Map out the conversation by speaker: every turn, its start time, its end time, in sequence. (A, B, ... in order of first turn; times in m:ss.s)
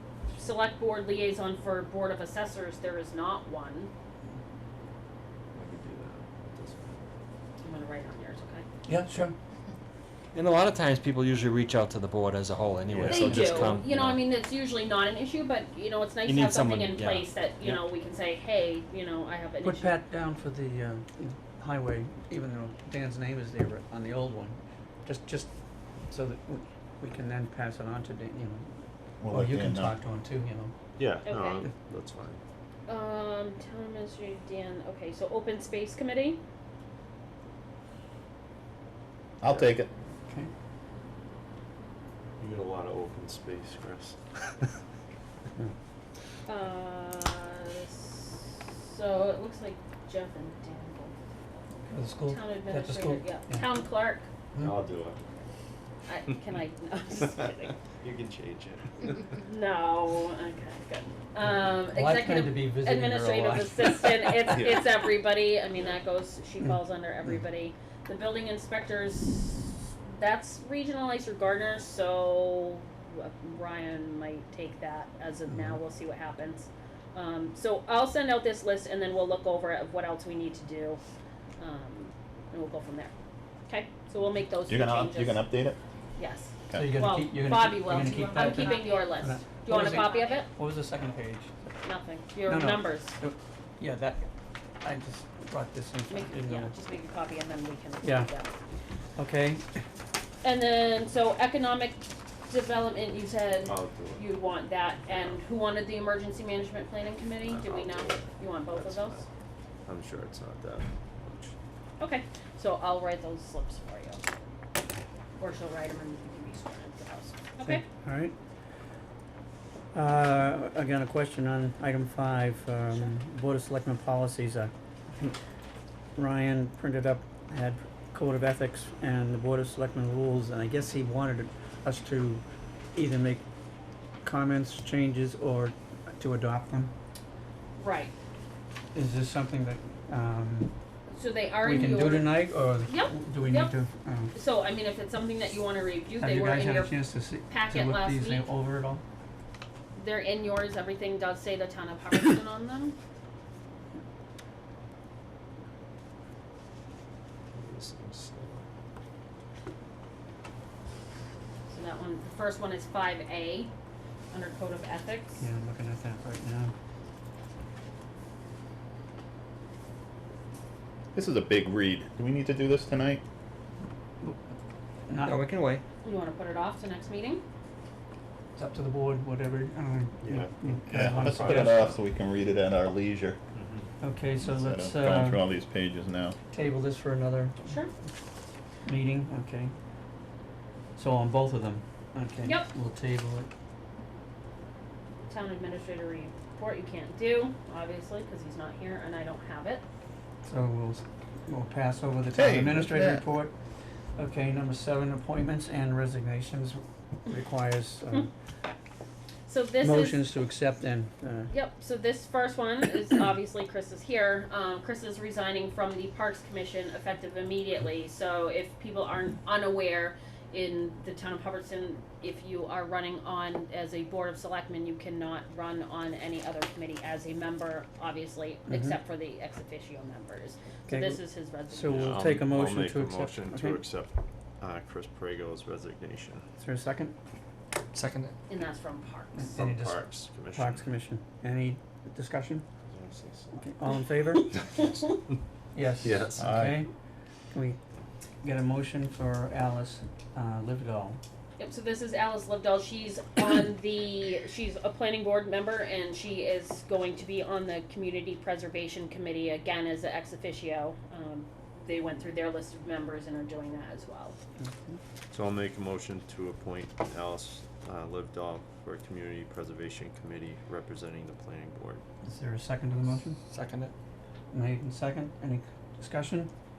0:00.3-0:03.9 A
0:05.5-0:07.1 B
0:07.6-0:08.6 A
0:08.9-0:09.4 C
0:10.3-0:14.2 D
0:12.9-0:13.8 B
0:13.0-0:20.0 A
0:16.2-0:17.8 D
0:19.6-0:25.5 C
0:26.1-0:28.7 C
0:29.2-0:29.9 E
0:29.3-0:30.7 C
0:31.0-0:32.4 B
0:31.3-0:31.7 A
0:32.9-0:36.4 A
0:39.4-0:39.9 E
0:42.4-0:44.2 B
0:46.5-0:54.3 A
0:51.9-0:53.7 C
0:54.6-0:55.4 B
0:56.1-0:57.8 A
0:57.8-0:59.3 B
0:59.3-1:21.0 A
1:01.9-1:04.6 C
1:04.5-1:04.9 B
1:21.6-1:23.1 A
1:23.7-1:25.5 A
1:24.7-1:25.8 E
1:26.2-1:30.5 A
1:26.7-1:31.5 C
1:31.8-1:33.2 A
1:32.5-1:34.3 C
1:34.8-1:36.7 C
1:36.1-1:38.5 A
1:38.0-1:38.3 C
1:39.2-1:39.6 C
1:40.4-1:49.2 A
1:43.7-1:44.3 B
1:45.1-1:45.4 B
1:47.4-1:49.3 B
1:49.9-1:51.5 B
1:52.0-1:54.2 A
1:55.4-1:57.8 A
1:57.6-1:58.3 C
1:59.9-2:05.4 C
2:06.2-2:12.4 C
2:13.0-2:13.4 C
2:14.2-2:16.9 C
2:17.8-2:18.1 A
2:18.9-2:20.7 C
2:21.1-2:23.7 A
2:21.6-2:24.3 C
2:24.3-2:28.5 A
2:26.2-2:29.0 C
2:30.0-2:33.0 A
2:37.5-2:38.6 B
2:41.7-2:43.7 A
2:44.3-2:45.4 A
2:45.4-2:46.7 C
2:51.1-2:53.2 E
2:55.1-2:55.4 C
2:55.2-2:55.8 D
2:56.0-2:57.4 A
2:58.6-3:01.9 C
3:00.2-3:02.0 B
3:00.9-3:03.4 E
3:03.5-3:03.9 B
3:04.0-3:05.4 C
3:04.4-3:06.4 E
3:06.5-3:07.7 C
3:07.7-3:07.9 A
3:08.9-3:09.7 C
3:11.0-3:13.5 C
3:12.4-3:12.7 A
3:15.3-3:19.8 A
3:20.5-3:23.5 C
3:22.3-3:23.2 E
3:24.2-3:28.3 C
3:29.5-3:30.3 A
3:29.8-3:31.5 C
3:31.5-3:52.2 A
3:48.7-3:49.0 C
3:50.9-3:53.8 C
3:51.8-3:56.4 B
3:56.6-3:57.1 C
3:57.9-3:58.3 D
3:58.5-3:59.5 A
3:59.3-4:02.6 C
3:59.5-4:00.8 B
4:02.9-4:03.6 B
4:03.5-4:04.6 C
4:05.7-4:06.9 C
4:06.0-4:06.5 B
4:06.4-4:06.8 E
4:07.5-4:07.8 C
4:08.4-4:11.2 C
4:11.6-4:24.4 A
4:24.6-4:25.0 C
4:25.3-4:32.0 B
4:32.2-4:33.4 C
4:33.5-4:33.9 D
4:34.5-4:36.5 C